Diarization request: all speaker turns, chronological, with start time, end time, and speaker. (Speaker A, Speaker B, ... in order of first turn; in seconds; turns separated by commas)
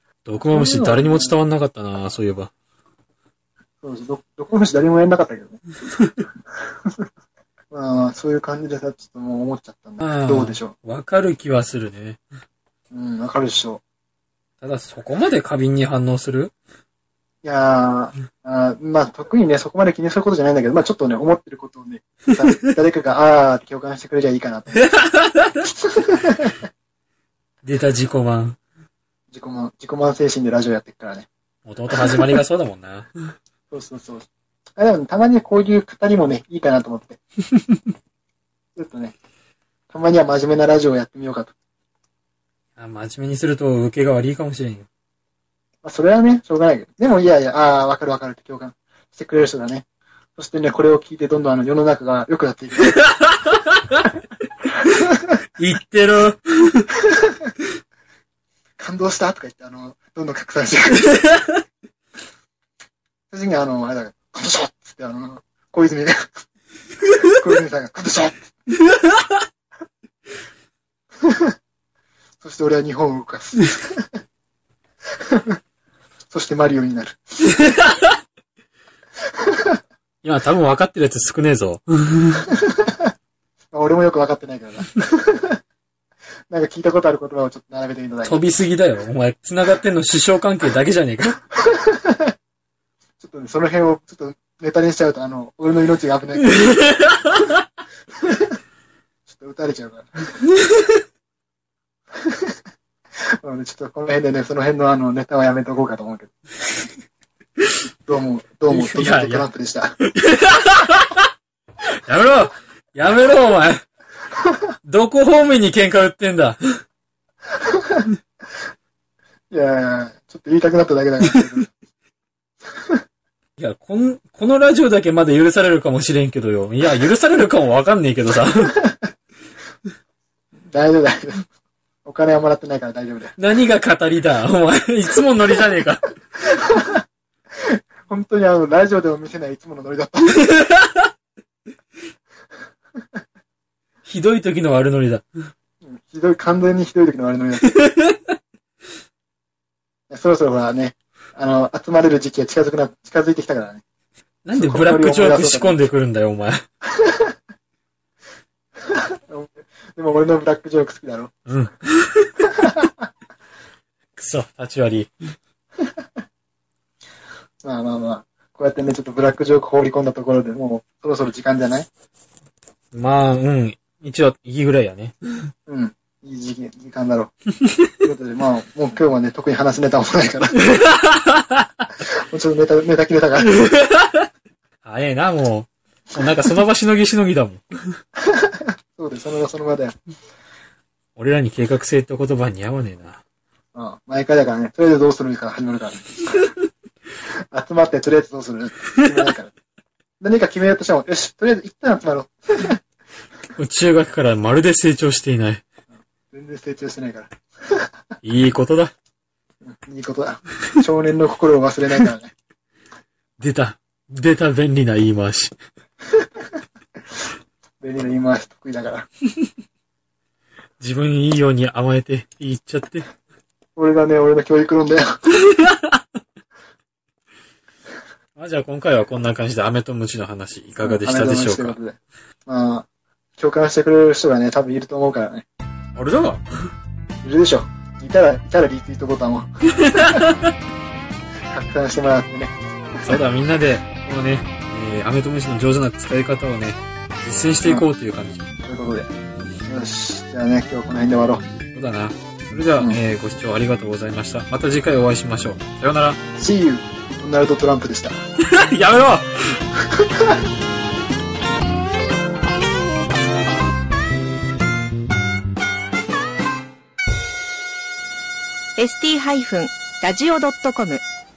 Speaker A: 0.2-2.5, Speaker B: 0.4-1.3, Speaker B: 3.8-5.6, Speaker B: 7.7-10.7, Speaker A: 10.0-12.2, Speaker B: 12.9-13.8, Speaker A: 14.6-16.5, Speaker B: 17.4-24.9, Speaker A: 24.7-25.7, Speaker B: 25.8-26.6, Speaker A: 27.6-28.6, Speaker B: 29.3-31.3, Speaker A: 31.7-33.1, Speaker B: 33.7-37.2, Speaker B: 38.8-39.2, Speaker B: 39.9-41.5, Speaker A: 42.8-44.9, Speaker B: 45.8-49.9, Speaker B: 50.4-53.0, Speaker A: 52.9-53.5, Speaker A: 55.6-56.9, Speaker B: 58.8-61.2, Speaker B: 63.3-66.3, Speaker B: 67.2-68.5, Speaker B: 72.4-74.1, Speaker B: 75.3-75.6, Speaker B: 76.3-77.8, Speaker B: 79.5-79.8, Speaker A: 80.2-82.5, Speaker B: 82.5-83.0, Speaker B: 83.7-85.6, Speaker B: 86.5-88.4, Speaker A: 88.2-91.4, Speaker B: 91.6-92.3, Speaker B: 93.2-96.8, Speaker A: 96.6-97.4, Speaker B: 99.3-100.2, Speaker B: 102.2-102.6, Speaker B: 103.4-106.3, Speaker B: 108.1-110.0, Speaker A: 108.7-109.5, Speaker A: 110.1-111.2, Speaker A: 112.0-113.8, Speaker A: 114.8-116.6, Speaker B: 117.6-118.1, Speaker B: 119.5-121.7, Speaker A: 123.6-128.8, Speaker B: 130.7-131.5, Speaker B: 132.1-133.3, Speaker A: 133.4-136.0, Speaker B: 136.6-137.0, Speaker B: 137.7-140.4, Speaker A: 140.3-141.0, Speaker A: 144.1-145.2, Speaker B: 145.8-147.8, Speaker A: 147.7-148.3, Speaker B: 150.1-153.8, Speaker A: 154.4-156.6, Speaker B: 154.5-155.8, Speaker B: 156.9-157.3, Speaker B: 158.9-161.3, Speaker A: 161.5-162.3, Speaker B: 162.4-162.9, Speaker A: 164.2-165.1, Speaker B: 167.6-171.9, Speaker A: 172.9-175.5, Speaker B: 175.7-177.3, Speaker B: 178.0-180.7, Speaker A: 180.6-181.7, Speaker B: 182.2-183.7, Speaker A: 183.5-184.3, Speaker A: 184.8-188.0, Speaker B: 188.2-190.0, Speaker A: 191.2-193.2, Speaker B: 193.7-196.3, Speaker B: 197.5-199.5, Speaker B: 200.2-202.8, Speaker A: 203.6-205.6, Speaker B: 206.3-207.9, Speaker A: 208.2-208.9, Speaker B: 209.6-212.3, Speaker A: 213.4-215.6, Speaker B: 217.8-219.1, Speaker A: 220.8-223.1, Speaker B: 223.8-225.1, Speaker A: 225.6-225.9, Speaker A: 228.4-231.8, Speaker B: 230.8-232.9, Speaker B: 233.4-235.5, Speaker A: 236.0-236.4, Speaker B: 237.2-240.3, Speaker A: 239.8-240.5, Speaker B: 241.5-243.2, Speaker A: 243.0-248.5, Speaker B: 248.7-249.1, Speaker B: 249.7-251.5, Speaker A: 251.7-256.2, Speaker B: 256.4-258.2, Speaker A: 258.4-259.6, Speaker B: 260.0-260.3, Speaker C: 268.8-271.0